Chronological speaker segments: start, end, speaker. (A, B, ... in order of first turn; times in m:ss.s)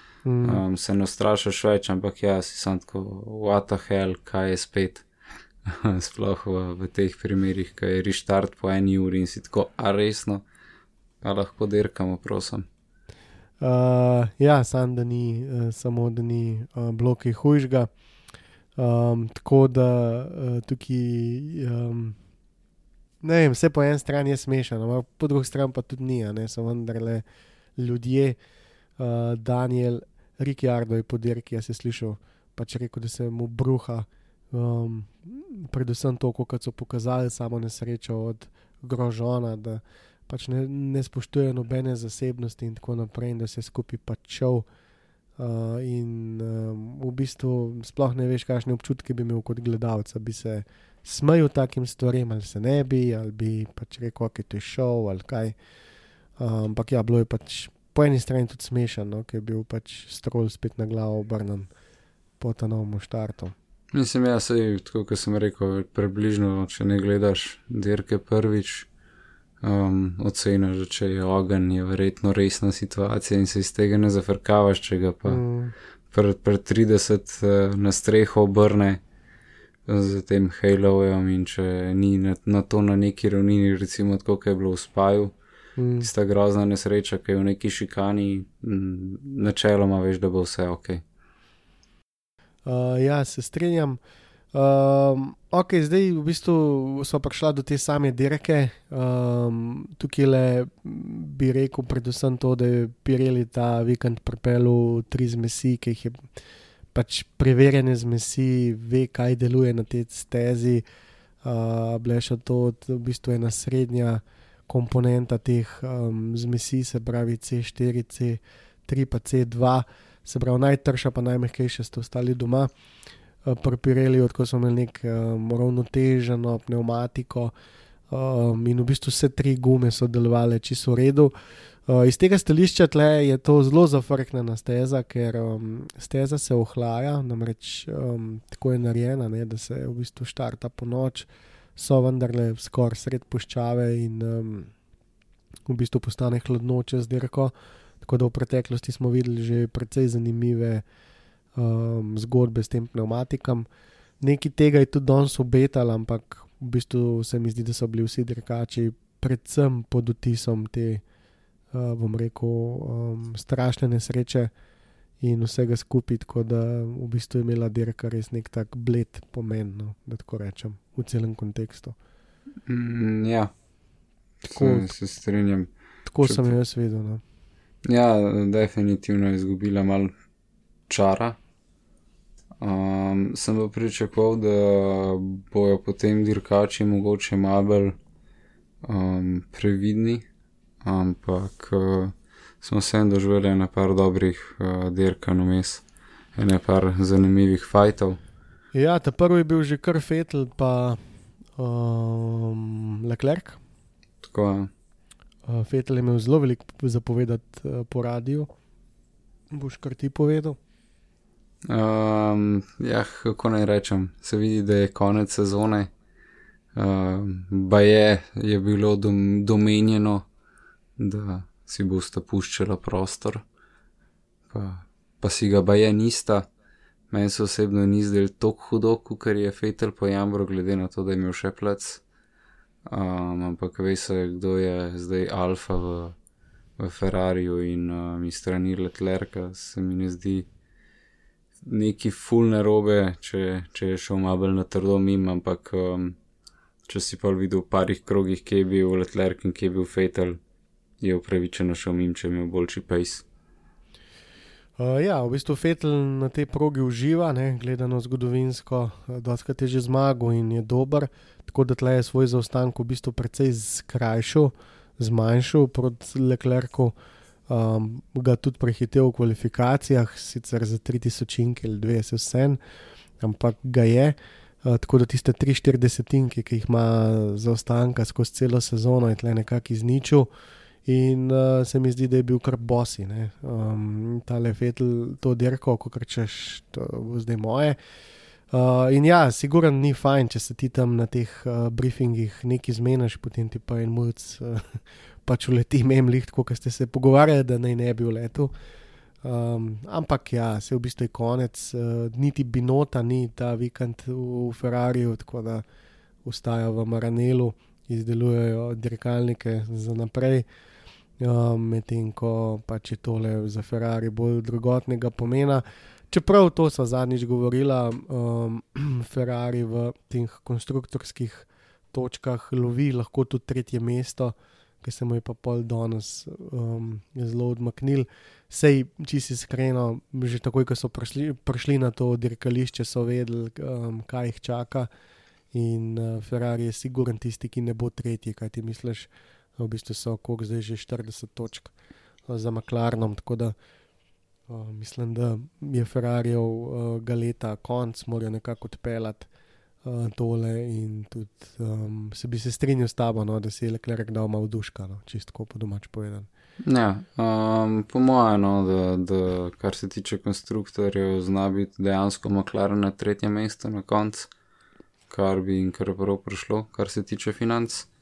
0:00.2-0:00.6 A
0:00.4-0:05.0 B
0:05.6-0:10.4 B
0:11.2-0:12.7 B
0:13.6-0:17.9 A
0:18.8-0:22.2 A
0:23.2-0:27.2 A
0:27.8-0:28.4 A
0:29.0-0:44.6 A
0:45.4-0:55.6 A
0:56.4-1:01.7 A
1:02.4-1:03.5 A
1:03.9-1:08.9 B
1:09.6-1:15.4 B
1:15.3-1:15.7 A
1:16.1-1:19.0 B
1:19.9-1:25.3 B
1:25.8-1:26.1 A
1:26.0-1:31.0 B
1:32.6-1:34.0 A
1:34.5-1:46.2 A
1:46.9-1:50.8 A
1:51.4-2:02.7 A
2:03.4-2:07.5 A
2:08.1-2:11.3 A
2:11.9-2:24.7 A
2:25.7-2:30.8 A
2:31.6-2:33.7 A
2:34.2-2:41.0 A
2:41.7-2:44.5 A
2:45.2-2:52.0 A
2:52.7-2:53.5 B
2:54.4-2:55.7 B
2:54.6-2:54.9 A
2:56.1-2:57.2 A
2:56.2-2:56.5 B
2:57.8-3:00.1 B
3:00.9-3:01.4 B
3:02.6-3:08.0 B
3:08.8-3:10.3 B
3:10.8-3:15.8 B
3:16.4-3:18.2 B
3:18.7-3:21.0 A
3:21.6-3:23.6 A
3:24.2-3:24.7 B
3:25.5-3:28.5 A
3:29.5-3:30.6 A
3:31.6-3:35.9 B
3:36.7-3:40.3 B
3:41.0-3:43.4 B
3:44.5-3:46.5 B
3:47.1-3:52.0 B
3:52.8-3:56.2 B
3:56.8-4:00.5 B
4:01.6-4:06.2 B
4:06.9-4:10.4 B
4:11.0-4:13.2 B
4:14.8-4:27.0 A
4:27.5-4:32.6 A
4:33.2-4:40.3 A
4:40.9-4:47.8 A
4:48.5-4:58.5 A
4:59.2-5:05.6 A
5:06.2-5:10.4 A
5:11.2-5:34.9 A
5:35.5-5:41.7 A
5:42.3-5:43.6 A
5:44.5-5:49.3 A
5:49.8-5:56.3 A
5:56.6-6:04.3 B
6:05.1-6:07.9 B